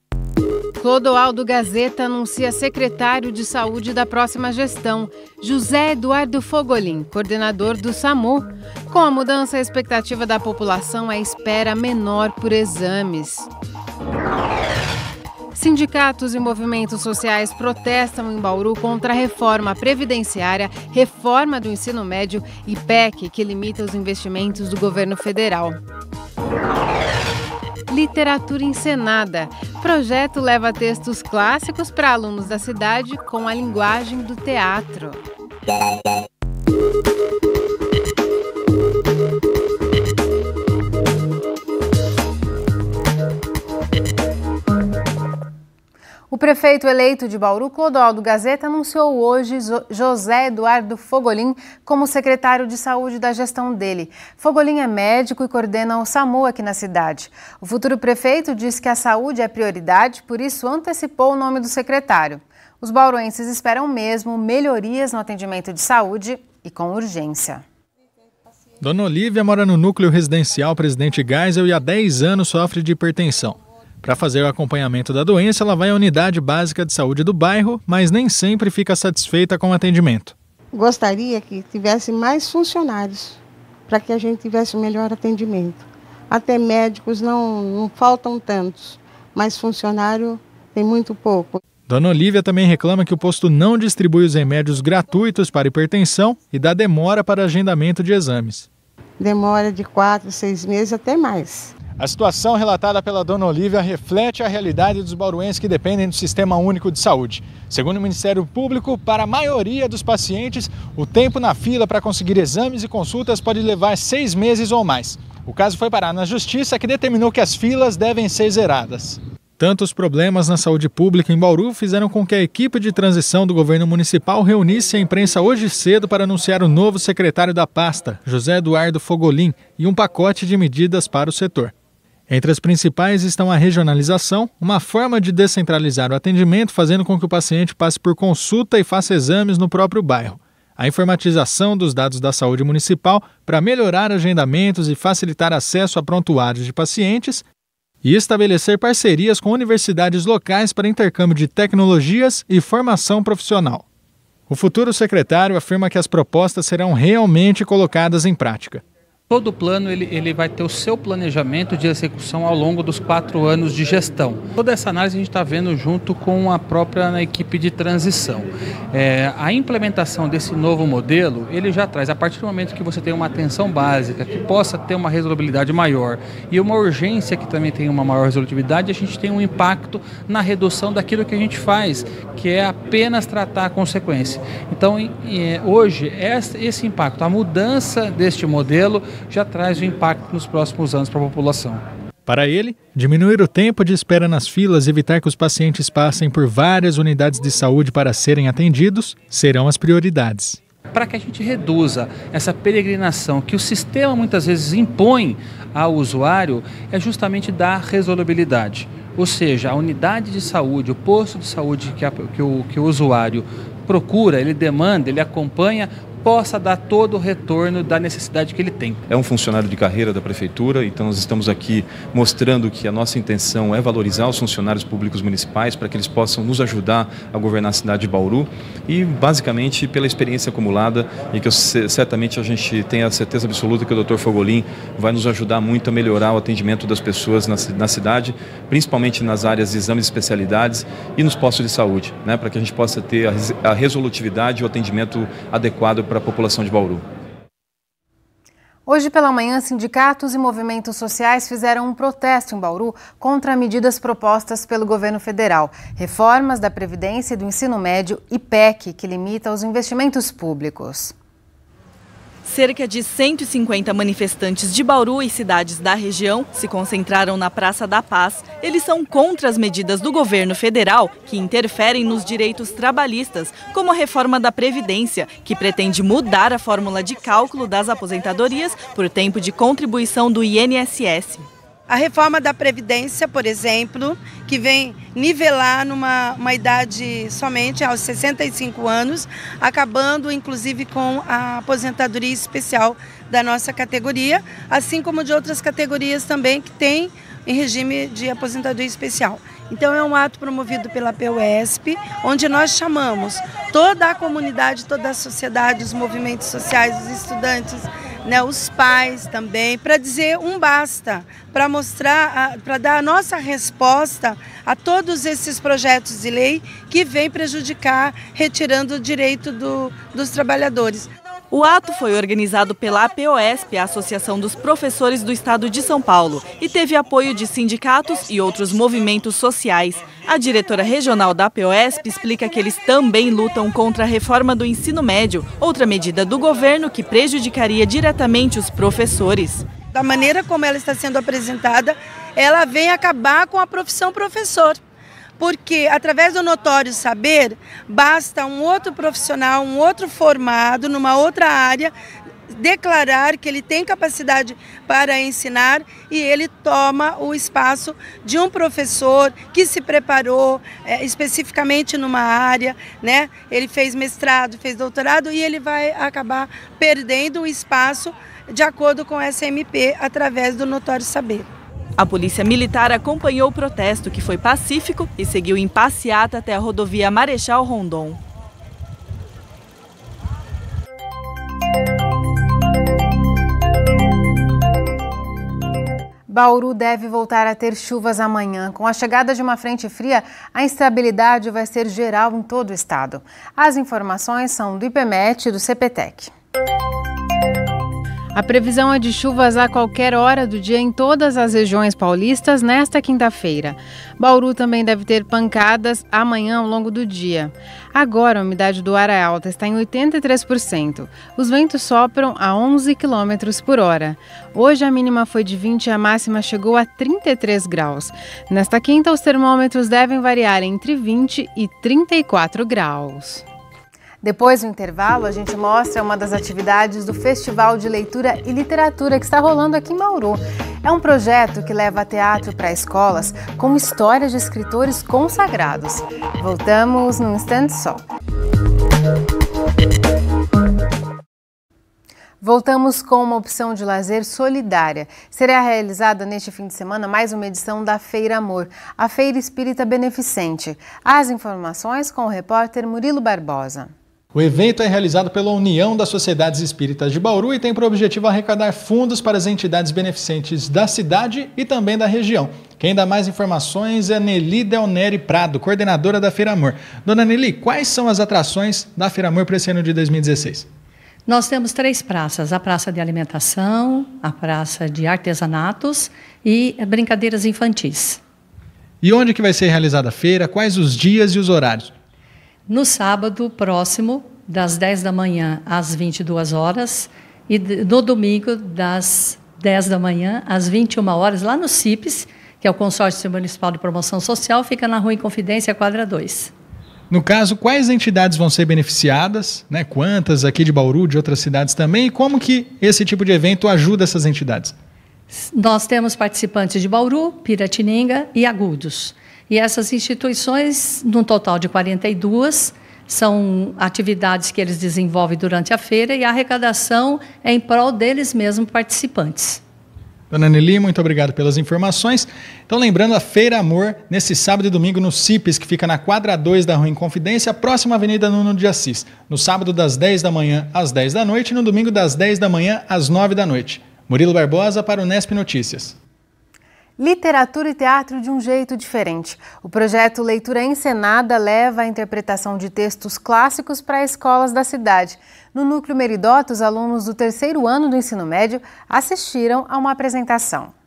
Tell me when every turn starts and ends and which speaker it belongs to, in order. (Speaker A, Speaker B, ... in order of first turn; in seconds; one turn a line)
Speaker A: 0.8-13.5
Speaker A: 15.5-25.8
Speaker A: 27.9-35.2
Speaker A: 46.3-67.6
Speaker B: 68.8-80.3
Speaker C: 80.7-91.6
Speaker B: 91.9-98.7
Speaker C: 99.2-101.7
Speaker B: 102.0-131.7
Speaker B: 132.3-147.4
Speaker B: 148.0-153.8
Speaker B: 154.5-158.8
Speaker D: 159.3-191.8
Speaker B: 192.3-200.6
Speaker D: 200.9-219.0
Speaker E: 219.1-247.0
Speaker A: 248.9-261.1
Speaker F: 262.4-281.5
Speaker G: 281.9-321.1
Speaker F: 321.5-339.6
Speaker G: 339.9-344.8
Speaker G: 345.4-351.9
Speaker G: 352.5-371.5
Speaker F: 372.0-378.2
Speaker A: 386.3-396.3
Speaker A: 398.3-423.4
Speaker A: 424.2-438.0
Speaker A: 442.4-453.9
Speaker B: 454.3-470.6
Speaker H: 471.3-478.2
Speaker B: 479.0-481.9
Speaker H: 482.7-496.5
Speaker B: 497.1-504.7
Speaker H: 505.3-519.6
Speaker B: 520.3-535.9
Speaker A: 537.0-550.7